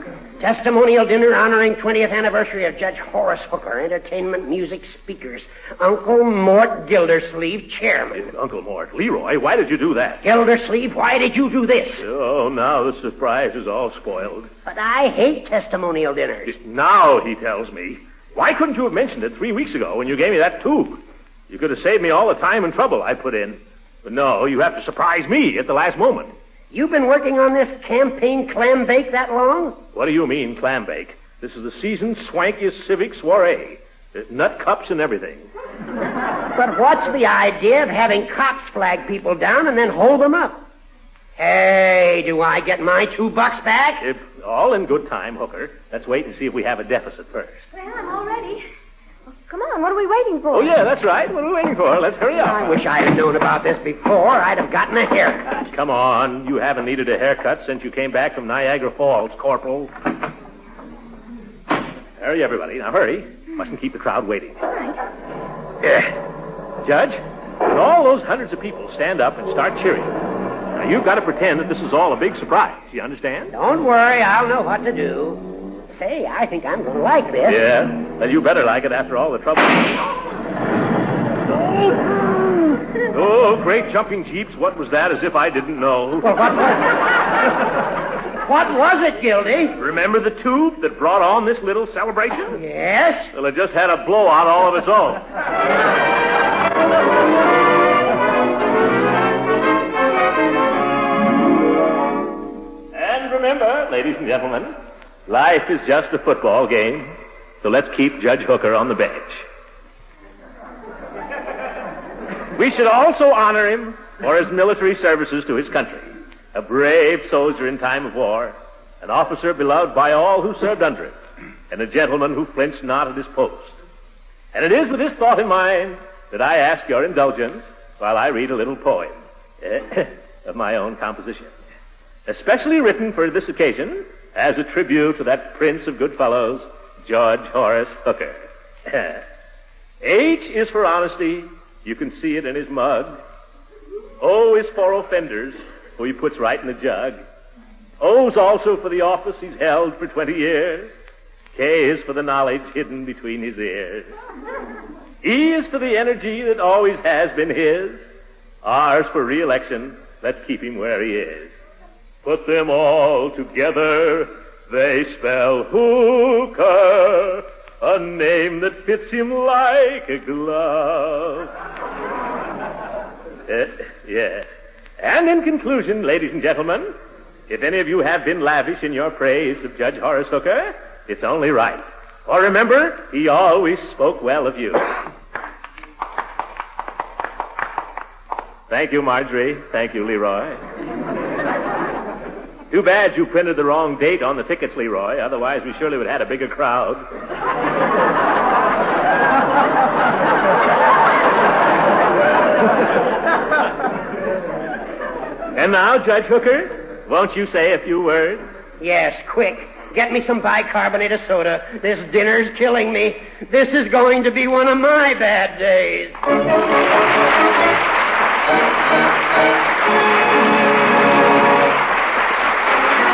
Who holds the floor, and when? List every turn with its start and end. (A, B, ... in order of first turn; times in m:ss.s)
0:00.4-0:08.3 A
0:08.2-0:10.2 B
0:10.2-0:12.1 A
0:12.0-0:14.5 B
0:14.6-0:16.6 A
0:16.5-0:26.3 B
0:26.7-0:29.8 A
0:29.9-0:35.5 B
0:36.6-0:40.6 A
0:41.4-0:44.1 A
0:44.0-0:47.6 B
0:47.8-0:48.6 C
0:49.5-0:50.8 C
0:50.5-0:52.8 B
0:52.4-0:55.7 A
0:55.7-0:59.9 B
1:02.2-1:04.7 B
1:05.8-1:06.2 B
1:06.8-1:10.2 B
1:10.8-1:13.5 B
1:13.5-1:17.7 A
1:17.5-1:20.1 B
1:23.1-1:26.4 B
1:26.2-1:26.9 A
1:28.4-1:29.8 A
1:29.8-1:32.6 B
1:32.5-1:33.3 A
1:33.3-1:35.2 B
1:42.9-1:44.8 B
1:45.3-1:49.4 B
1:52.6-2:01.2 B
2:01.7-2:03.8 B
2:04.5-2:11.5 B
2:12.3-2:19.2 B
2:20.0-2:23.2 B
2:24.2-2:27.2 B
2:28.0-2:30.9 B
2:31.6-2:34.1 B
2:35.2-2:38.0 B
2:38.6-2:41.5 B
2:42.2-2:51.5 B
2:53.5-2:54.5 B
2:55.0-2:56.9 B
2:57.5-3:04.9 B
3:08.7-3:10.6 B
3:12.7-3:17.1 B
3:25.6-3:28.4 B
3:28.8-3:36.2 A